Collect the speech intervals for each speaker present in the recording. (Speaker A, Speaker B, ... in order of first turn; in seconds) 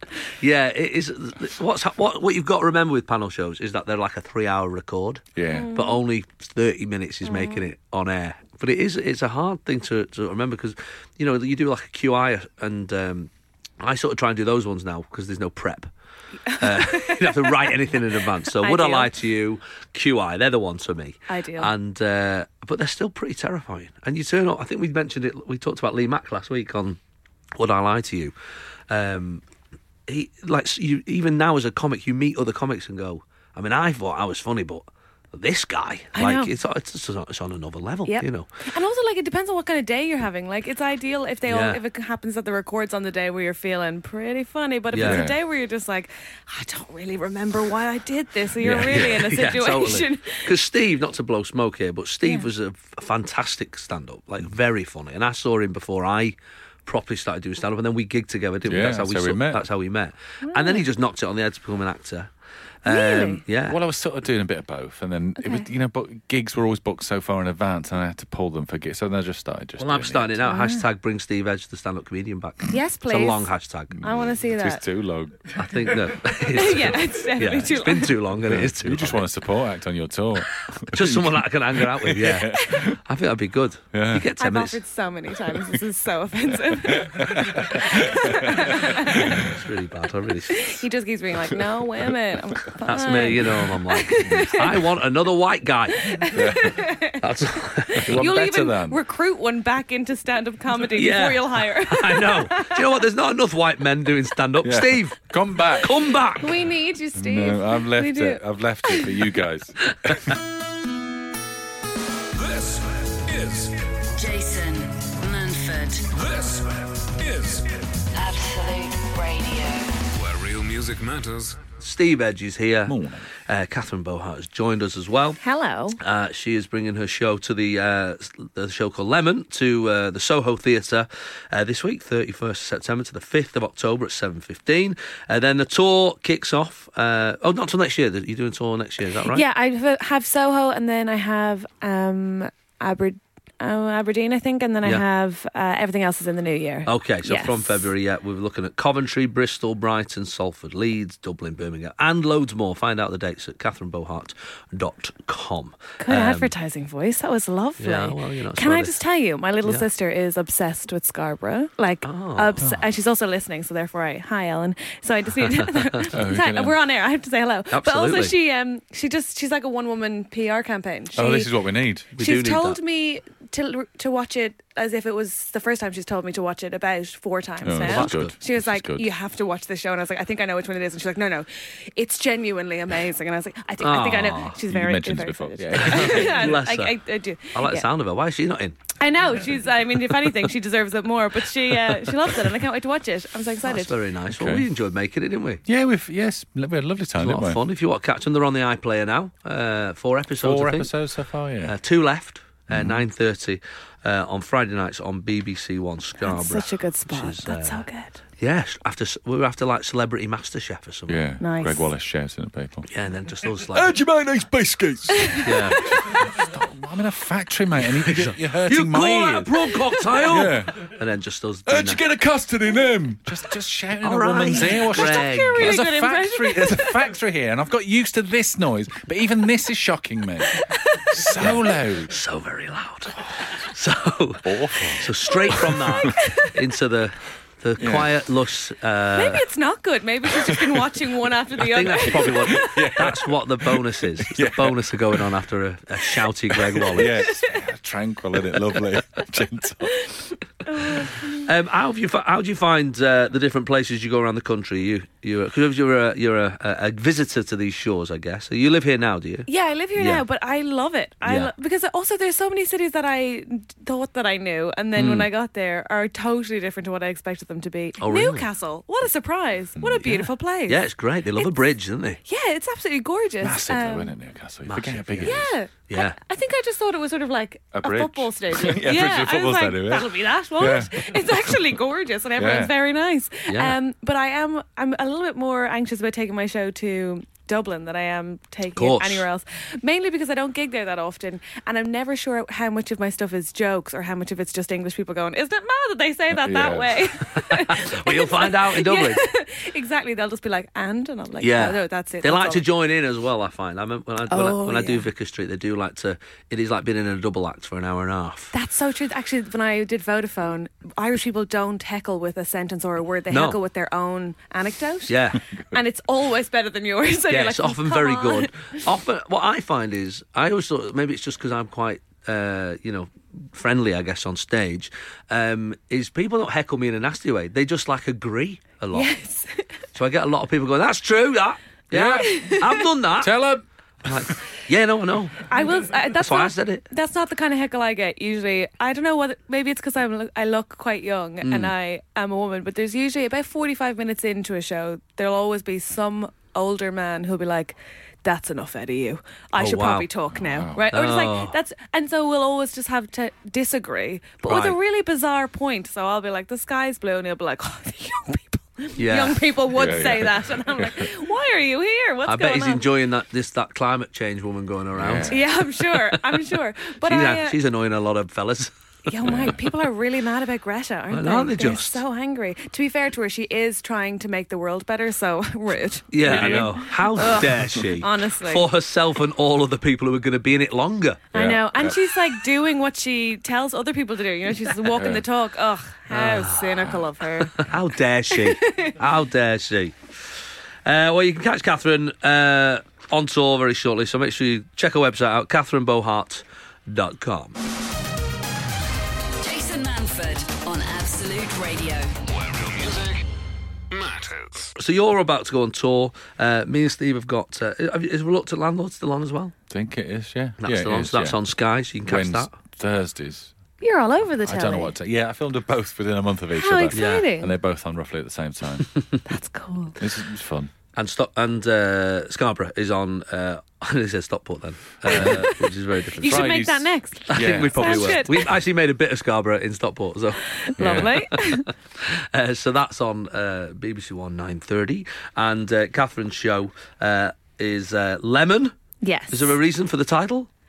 Speaker A: 0.4-15.9, 16.5-27.0, 27.6-28.3, 28.9-29.4, 30.1-38.5, 41.5-41.8, 44.9-45.3, 48.9-62.3, 62.8-63.8, 69.8-74.0, 75.5-79.3, 80.9-84.8, 88.9-90.8, 92.8-96.1, 97.2-98.3, 100.9-105.2, 105.8-106.5, 121.8-122.9, 123.5-125.4, 126.0-139.4, 146.8-156.5, 157.8-159.0, 162.0-162.8, 165.4-166.1, 167.7-168.3, 172.2-172.8, 177.8-178.3, 183.8-184.6, 185.7-187.0, 187.5-188.8, 191.7-192.4, 193.7-195.6, 197.2-200.9, 201.6-207.8, 208.4-211.2, 212.9-213.9, 215.4-216.2, 217.8-222.0, 224.0-225.7, 231.4-239.5, 241.6-247.3, 251.4-260.2, 261.2-261.5, 264.9-265.3, 268.0-268.5, 270.0-272.2, 274.7-276.2, 283.5-283.8, 288.7-289.3, 297.3-299.3, 301.4-308.5, 313.3-313.6, 315.1-315.4, 317.3-329.1, 329.9-333.3, 334.0-335.4, 336.1-336.8, 341.4-341.7, 349.6-350.1, 350.9-351.6, 354.4-354.8, 359.0-359.4, 362.2-366.4, 367.0-369.7, 371.1-372.0, 376.1-381.3, 386.1-386.9, 387.5-390.0, 390.8-397.6, 404.8-409.5, 410.6-412.5, 416.9-417.3, 420.9-426.5, 427.3-438.7, 439.3-440.5
Speaker B: 5.3-5.7, 45.0-45.4, 48.6-49.3, 58.6-59.6, 63.6-70.4, 74.0-76.1, 78.4-83.0, 83.9-84.3, 86.7-89.5, 91.6-92.6, 96.3-96.8, 98.0-99.0, 104.6-106.0, 107.1-110.2, 122.8-123.3, 166.1-166.8, 171.1-172.1, 177.6-179.1, 184.7-186.5, 194.3-194.7, 195.6-197.6, 200.4-201.7, 202.7-203.1, 211.1-212.9, 213.6-220.9, 221.7-230.6, 231.1-232.1, 234.4-236.1, 237.8-238.2, 240.2-240.8, 242.2-245.3, 246.5-250.0, 269.8-270.1, 273.4-275.6, 277.7-281.7, 282.4-282.7, 296.3-297.1, 331.9-332.5, 333.2-334.3, 350.3-350.9, 359.7-361.1, 364.9-365.4, 369.2-369.6, 376.2-377.9, 381.3-382.0, 384.8-385.2, 409.7-411.4, 412.0-413.5, 414.4-418.9, 420.0-420.7, 425.1-425.4, 426.2-428.3, 430.8-431.2
Speaker C: 5.5-6.0, 7.2-7.7, 16.4-17.8, 18.4-19.1, 21.3-21.7, 36.1-36.5, 38.0-50.5, 60.4-60.9, 62.9-63.4, 65.4-65.7, 70.4-70.9, 72.7-74.8, 76.5-78.2, 84.3-89.5, 90.5-94.9, 95.9-103.1, 106.3-109.3, 125.4-126.0, 139.2-147.9, 156.0-171.5, 172.1-187.9, 189.0-194.0, 206.2-208.2, 211.4-211.9, 215.1-216.2, 224.6-227.1, 230.5-231.4, 235.5-236.7, 239.1-242.7, 247.3-247.6, 249.9-251.5, 259.5-270.8, 272.2-274.1, 275.2-302.7, 304.3-305.1, 308.5-318.9, 328.9-329.7, 332.2-332.8, 335.5-362.9, 365.2-367.6, 369.1-378.7, 381.3-387.7, 388.3-389.0, 413.8-414.9, 416.5-417.5, 419.2-420.0, 425.1-428.5, 430.5-431.7, 439.0-439.6
Speaker D: 112.3-114.0, 116.1-118.0, 120.1-121.6, 402.3-403.2, 403.9-404.7
Speaker E: 114.2-116.1, 118.1-120.0, 399.4-402.1